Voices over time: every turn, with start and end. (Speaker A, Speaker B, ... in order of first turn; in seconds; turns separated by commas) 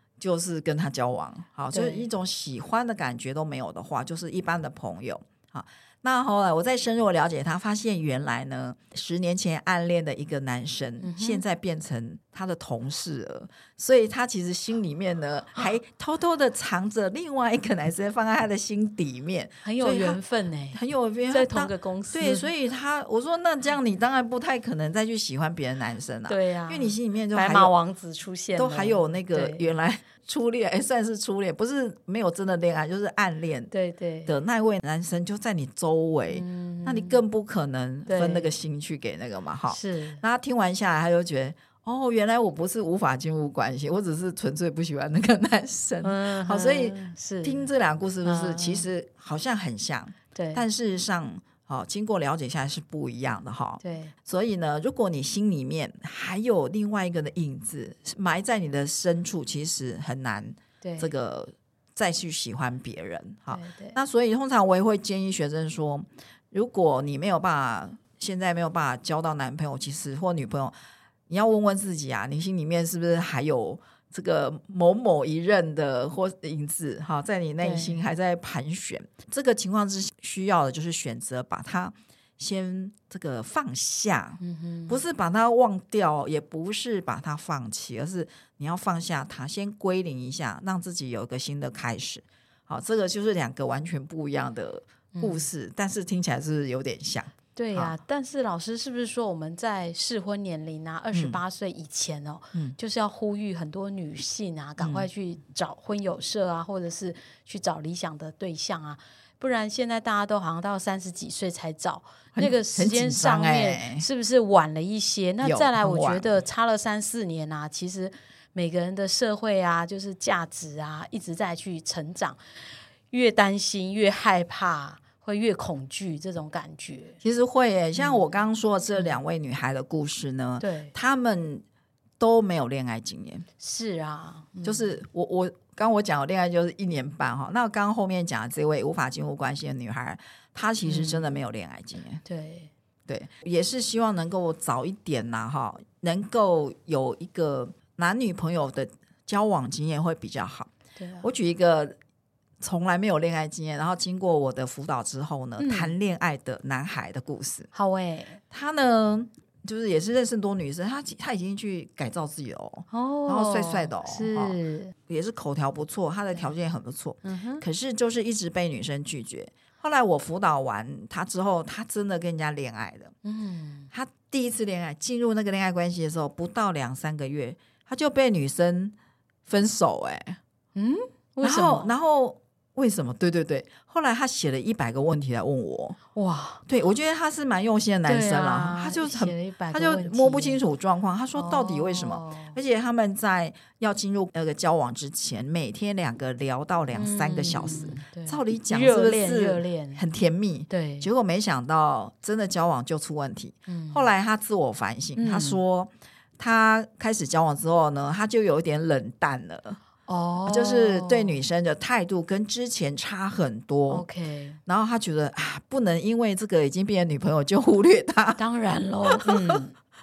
Speaker A: 0.2-20.2, Speaker B: 1.7-2.1, Speaker B: 11.0-11.4, Speaker B: 19.6-22.5, Speaker A: 20.7-27.7, Speaker B: 26.3-29.7, Speaker A: 28.6-33.7, Speaker B: 33.7-34.4, Speaker A: 34.3-70.8, Speaker B: 36.3-37.2, Speaker B: 38.1-38.5, Speaker B: 39.7-40.2, Speaker B: 46.0-47.7, Speaker B: 48.2-48.9, Speaker B: 50.3-50.6, Speaker B: 53.8-54.1, Speaker B: 60.8-61.1, Speaker B: 63.5-64.0, Speaker A: 71.3-98.0, Speaker B: 77.6-78.0, Speaker B: 84.4-85.0, Speaker B: 95.1-95.5, Speaker B: 97.5-127.2, Speaker A: 101.1-101.4, Speaker A: 104.8-105.1, Speaker A: 112.3-114.1, Speaker A: 115.4-116.3, Speaker A: 127.2-131.6, Speaker B: 128.0-128.3, Speaker B: 128.9-129.2, Speaker B: 130.6-130.9, Speaker A: 132.2-133.5, Speaker B: 133.6-135.0, Speaker A: 134.6-142.2, Speaker B: 140.8-141.3, Speaker B: 142.2-142.7, Speaker A: 143.1-150.7, Speaker B: 151.0-151.3, Speaker A: 151.2-152.0, Speaker A: 152.6-157.7, Speaker B: 155.6-155.9, Speaker B: 157.7-158.4, Speaker A: 158.5-173.1, Speaker B: 162.9-164.9, Speaker B: 167.2-167.6, Speaker B: 173.2-173.9, Speaker A: 173.9-179.0, Speaker A: 179.5-180.4, Speaker B: 180.8-181.9, Speaker A: 181.4-186.0, Speaker B: 186.1-186.6, Speaker A: 186.7-209.8, Speaker B: 188.1-190.6, Speaker B: 191.3-192.6, Speaker B: 196.9-200.0, Speaker B: 200.7-201.1, Speaker B: 203.7-204.1, Speaker B: 205.2-205.6, Speaker B: 210.1-211.5, Speaker A: 210.4-214.1, Speaker B: 213.9-214.6, Speaker A: 214.7-218.4, Speaker B: 218.4-219.8, Speaker A: 219.1-219.6